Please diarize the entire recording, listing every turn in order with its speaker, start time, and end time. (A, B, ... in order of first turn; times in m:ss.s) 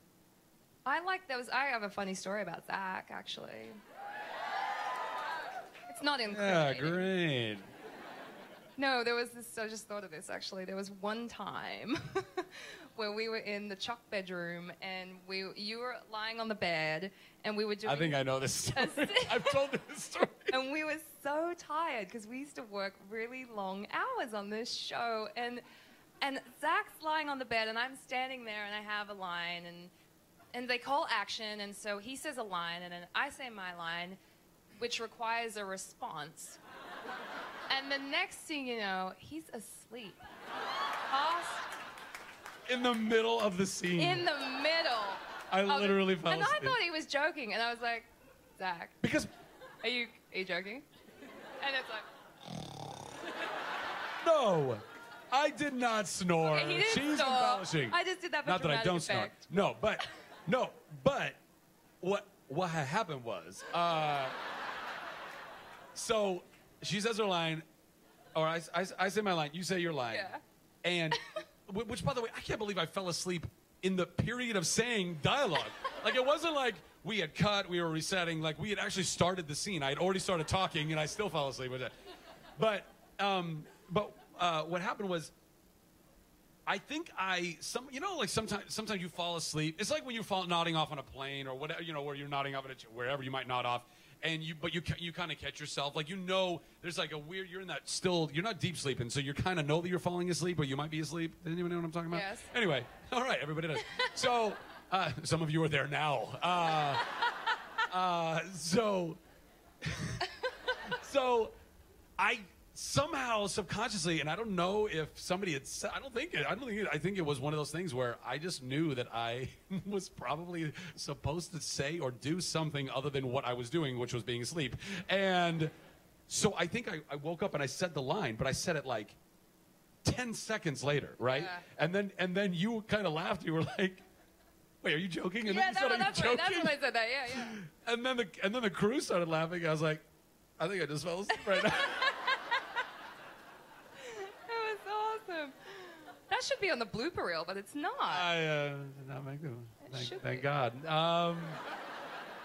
0:00.8-0:03.8 A
0:05.9-0:07.1 A
0:06.3-0:07.7 B
0:08.8-0:18.2 A
0:17.8-0:20.6 B
0:18.7-0:19.6 A
0:20.5-0:25.6 A
0:26.2-0:29.9 A
0:30.5-0:34.2 A
0:34.8-0:36.6 A
0:37.7-0:40.2 A
0:41.1-0:41.7 A
0:42.7-0:44.2 B
0:44.0-0:49.0 A
0:45.5-0:46.8 B
0:49.0-0:49.3 B
0:49.8-0:50.8 A
0:51.6-0:52.0 A
0:54.2-1:01.4 B
0:56.4-0:59.5 A
1:02.0-1:04.4 B
1:05.9-1:07.6 B
1:08.3-1:10.3 B
1:10.1-1:10.4 A
1:10.8-1:21.9 B
1:22.6-1:25.3 B
1:26.6-1:47.0 B
1:42.1-1:42.5 A
1:47.9-1:49.2 B
1:49.8-1:50.2 B
1:50.8-1:51.5 B
1:52.2-2:05.7 B
2:06.3-2:09.2 B
2:10.0-2:14.0 B
2:11.2-2:11.6 A
2:14.8-2:16.7 B
2:15.4-2:17.6 A
2:17.3-2:20.0 B
2:20.6-2:21.9 B
2:21.5-2:22.3 A
2:24.0-2:28.3 A
2:28.1-2:31.6 B
2:29.8-2:30.4 A